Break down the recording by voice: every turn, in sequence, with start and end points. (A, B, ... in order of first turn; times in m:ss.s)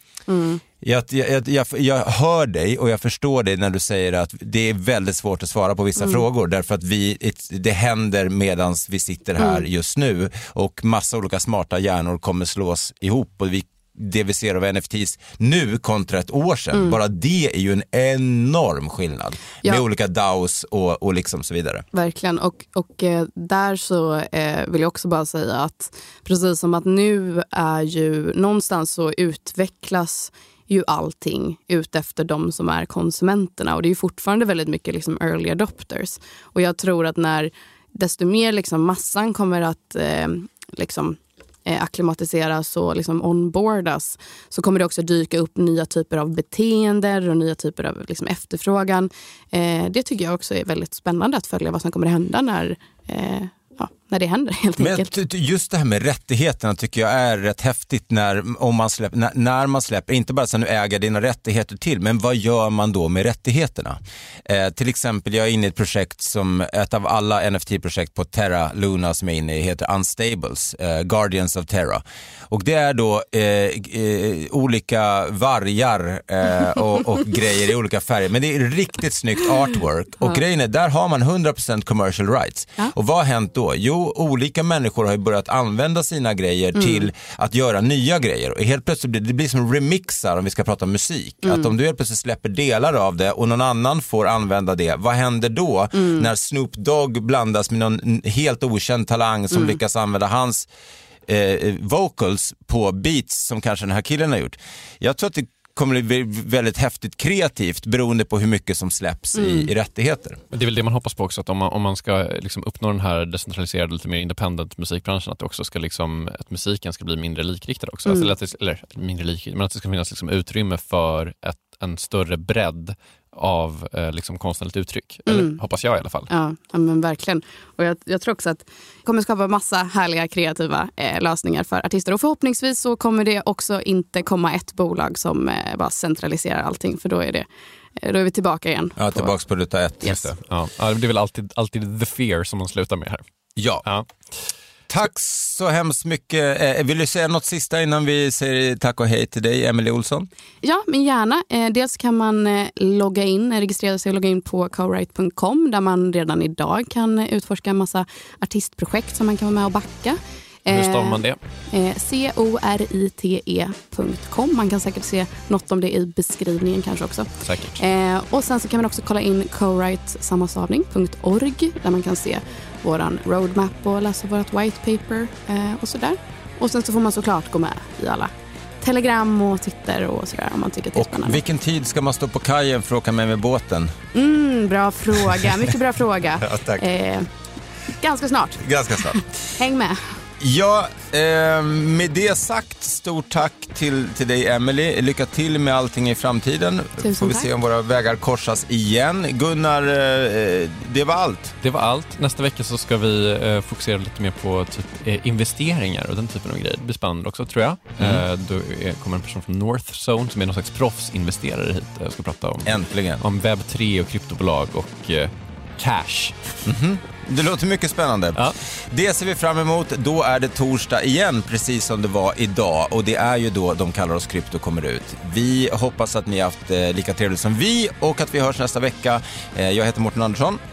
0:00.3-0:00.6 A
0:00.8-0:21.8 B
0:06.0-0:06.2 A
0:21.9-0:55.1 A
0:54.8-1:40.7 B
1:26.7-1:27.1 A
1:31.4-1:31.7 A
1:36.0-1:36.3 A
1:41.2-1:50.4 B
1:49.4-1:49.7 A
1:50.5-2:06.3 C
1:58.0-1:58.3 A
2:05.3-2:05.6 A
2:06.3-2:17.4 A
2:18.0-2:19.3 A
2:19.0-2:20.2 B
2:20.0-2:23.2 C
2:23.6-2:23.8 B
2:24.9-2:30.3 B
2:30.6-2:58.3 A
2:40.7-2:41.4 C
2:47.4-2:47.8 C
2:58.8-3:01.4 A
3:00.9-3:04.0 B
3:04.1-3:07.3 A
3:05.2-3:05.6 B
3:06.4-3:06.8 B
3:07.9-3:10.1 A
3:08.6-3:09.2 B
3:10.4-3:21.5 B
3:17.0-3:17.5 A
3:21.6-3:36.5 C
3:28.0-3:28.2 B
3:32.6-3:33.2 B
3:36.6-3:50.6 B